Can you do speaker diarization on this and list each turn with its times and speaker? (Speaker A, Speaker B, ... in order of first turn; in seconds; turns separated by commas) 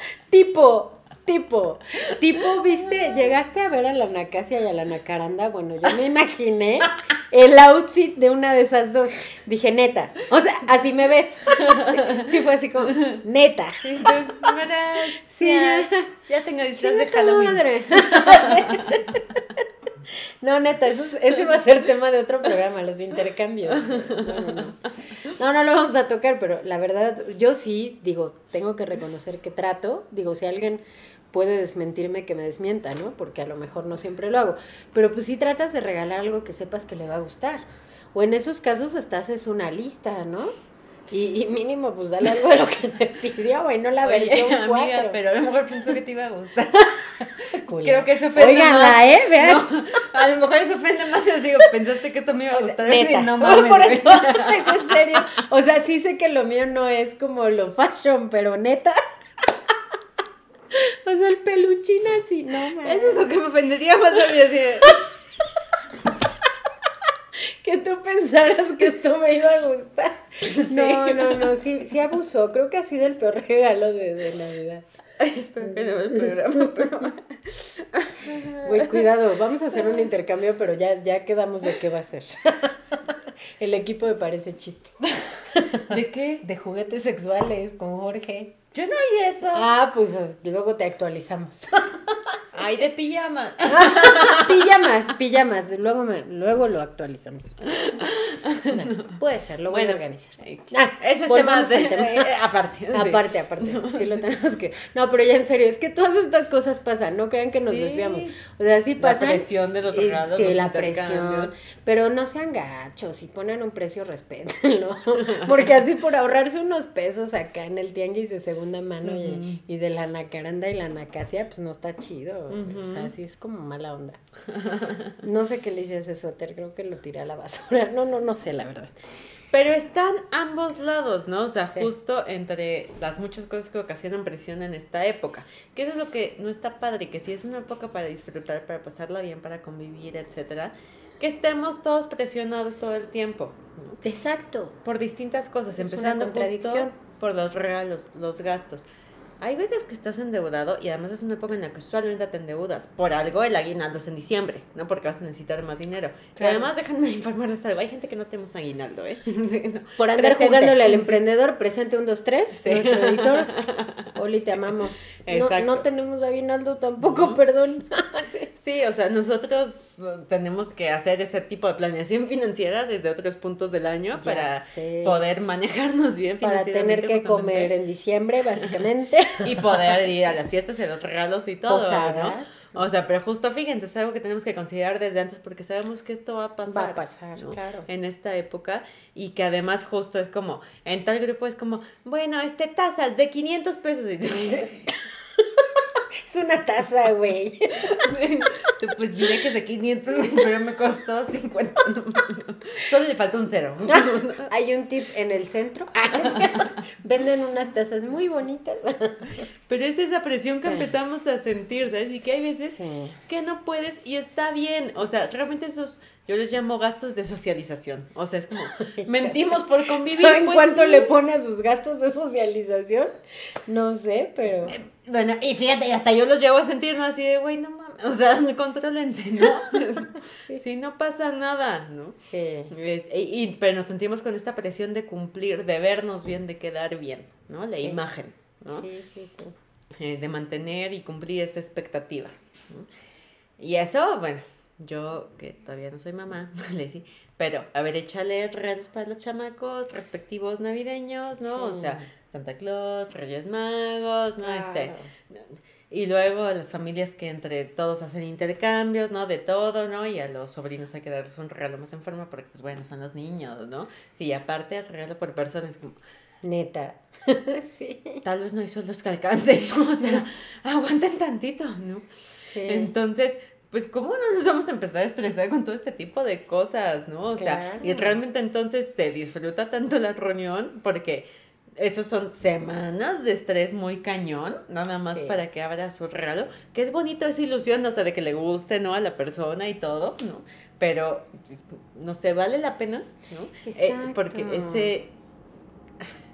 Speaker A: 0.3-14.5, Speaker B: 2.1-3.3, Speaker B: 11.5-13.2, Speaker B: 13.8-19.2, Speaker A: 15.1-16.1, Speaker A: 16.8-19.4, Speaker A: 20.1-40.5, Speaker B: 23.7-24.7, Speaker A: 41.1-45.2, Speaker B: 44.0-55.2, Speaker A: 47.2-49.7, Speaker A: 52.5-59.0, Speaker A: 60.7-63.3, Speaker B: 62.5-65.0, Speaker A: 67.4-74.8, Speaker B: 70.4-71.5, Speaker B: 75.2-79.0, Speaker A: 75.7-76.3, Speaker A: 78.6-83.0, Speaker A: 83.6-88.6, Speaker B: 85.8-86.4, Speaker B: 88.7-89.7, Speaker A: 89.5-92.4, Speaker B: 92.5-94.7, Speaker A: 93.7-97.7, Speaker B: 97.7-104.2, Speaker A: 98.7-102.3, Speaker A: 102.9-124.2, Speaker B: 107.5-108.4, Speaker B: 109.0-111.6, Speaker B: 115.2-115.7, Speaker B: 119.0-119.6, Speaker B: 122.5-123.1, Speaker B: 124.5-125.2, Speaker A: 125.2-128.9, Speaker B: 129.5-144.0, Speaker A: 144.0-144.8, Speaker B: 144.8-148.9, Speaker A: 145.8-146.9, Speaker B: 149.4-161.2, Speaker A: 156.4-156.7, Speaker A: 160.0-168.5, Speaker B: 162.5-165.8, Speaker B: 167.0-167.4, Speaker B: 168.6-177.7, Speaker A: 174.2-175.3, Speaker A: 176.4-180.1, Speaker B: 179.4-194.9, Speaker A: 181.7-182.8, Speaker A: 186.7-187.9, Speaker A: 196.2-198.1, Speaker B: 197.8-204.5, Speaker A: 203.9-209.5, Speaker B: 206.1-206.8, Speaker B: 209.7-221.2, Speaker A: 210.6-210.9, Speaker A: 212.7-213.2, Speaker A: 218.7-223.1, Speaker A: 223.7-224.8, Speaker B: 224.6-232.2, Speaker A: 232.2-232.7, Speaker B: 232.7-238.9, Speaker A: 237.7-238.0, Speaker A: 238.7-239.6, Speaker B: 239.9-242.9, Speaker B: 243.6-266.0, Speaker A: 251.4-252.1, Speaker A: 254.4-255.1, Speaker A: 266.4-268.2, Speaker B: 268.2-272.1, Speaker A: 272.4-272.9, Speaker B: 272.6-295.1, Speaker A: 277.4-278.2, Speaker A: 285.1-285.4, Speaker A: 293.6-294.9